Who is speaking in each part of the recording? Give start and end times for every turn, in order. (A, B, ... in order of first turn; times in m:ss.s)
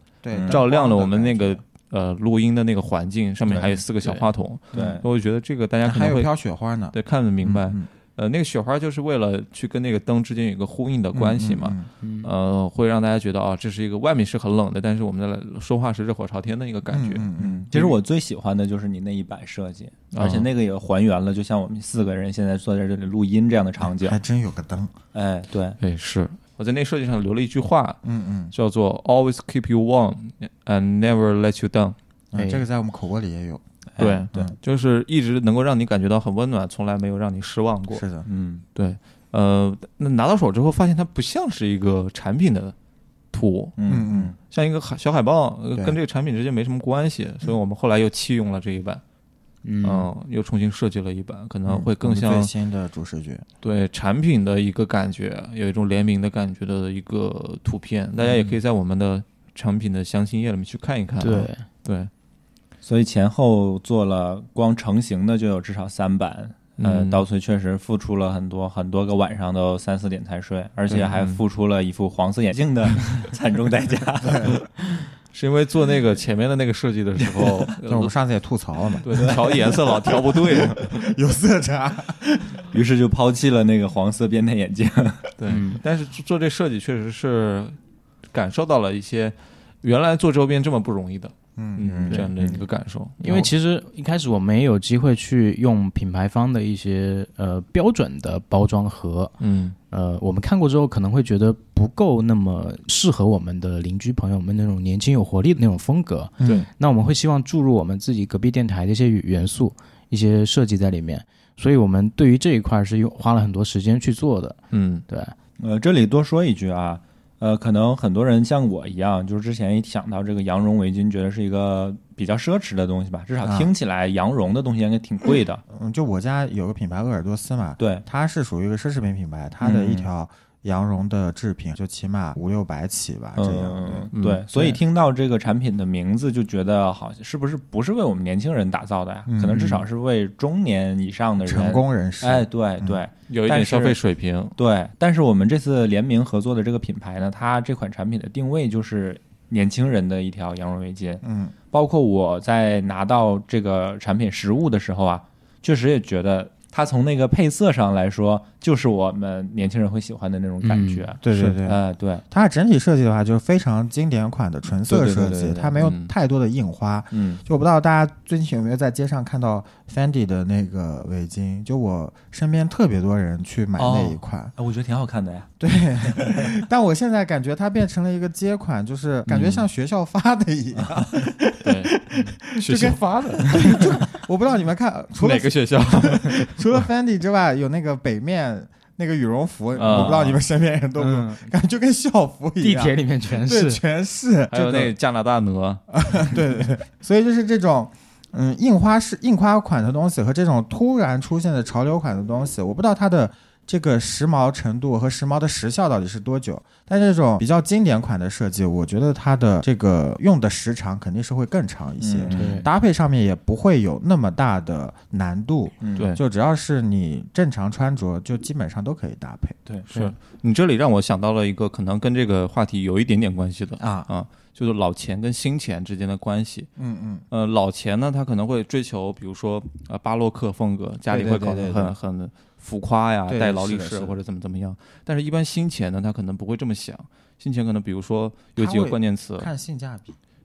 0:00.2-0:01.6 A
0:00.3-0:00.6 B
0:00.4-0:06.3 C
0:04.7-0:05.0 B
0:05.8-0:07.8 A
0:06.9-0:17.2 C
0:11.1-0:11.9 A
0:12.0-0:12.3 D
0:16.9-0:17.7 A
0:17.4-0:24.2 B
0:20.1-0:20.5 C
0:23.8-0:24.9 A
0:25.1-0:25.8 B
0:25.8-0:32.0 C
0:28.0-0:28.5 A
0:32.3-0:33.6 A
0:32.3-0:32.6 D
0:33.9-0:34.3 B
0:34.0-0:38.0 C
0:37.9-0:38.3 A
0:38.2-0:38.6 B
0:38.7-0:42.7 C
0:43.3-0:43.8 C
0:43.8-0:44.3 B
0:43.9-0:44.3 A
0:44.5-0:49.0 C
0:49.6-0:50.1 D
0:49.8-0:52.5 C
0:51.6-0:53.4 A
0:53.6-1:02.1 C
1:01.2-1:01.6 D
1:02.8-1:14.6 B
1:06.8-1:07.2 C
1:10.9-1:11.4 C
1:14.2-1:14.6 A
1:15.3-1:18.1 C
1:17.8-1:22.6 A
1:19.0-1:21.0 C
1:19.1-1:19.6 B
1:22.7-1:25.3 B
1:25.4-1:27.8 C
1:25.5-1:25.8 D
1:28.3-1:33.5 C
1:31.6-1:31.8 A
1:31.8-1:32.6 B
1:33.2-1:39.3 D
1:39.4-1:39.8 C
1:39.9-1:54.6 D
1:46.4-1:46.7 C
1:54.7-1:55.0 C
1:55.1-1:55.3 D
1:55.6-2:05.6 B
2:03.4-2:03.7 A
2:05.7-2:14.1 A
2:07.8-2:08.0 B
2:09.6-2:10.1 B
2:13.4-2:24.0 B
2:14.1-2:14.4 C
2:19.3-2:19.8 A
2:21.4-2:23.0 A
2:23.3-2:24.5 C
2:24.6-2:42.2 B
2:31.2-2:31.5 A
2:40.6-2:41.1 D
2:41.2-2:54.5 A
2:44.8-2:45.8 B
2:45.8-2:46.1 C
2:47.1-2:47.4 B
2:53.8-2:56.5 B
2:55.6-3:01.6 A
2:59.3-2:59.6 C
3:00.8-3:01.3 B
3:01.6-3:04.0 C
3:02.0-3:02.4 D
3:02.6-3:14.9 A
3:05.2-3:06.9 C
3:09.7-3:10.4 C
3:11.0-3:11.5 D
3:12.6-3:13.8 D
3:14.5-3:15.8 C
3:16.0-3:39.6 A
3:32.0-3:32.7 B
3:32.3-3:32.7 D
3:35.8-3:36.1 B
3:39.9-3:46.7 C
3:43.8-3:44.1 A
3:46.8-3:47.2 A
3:47.3-3:59.5 C
3:51.1-3:51.9 A
3:53.3-3:54.2 A
3:58.6-4:00.2 A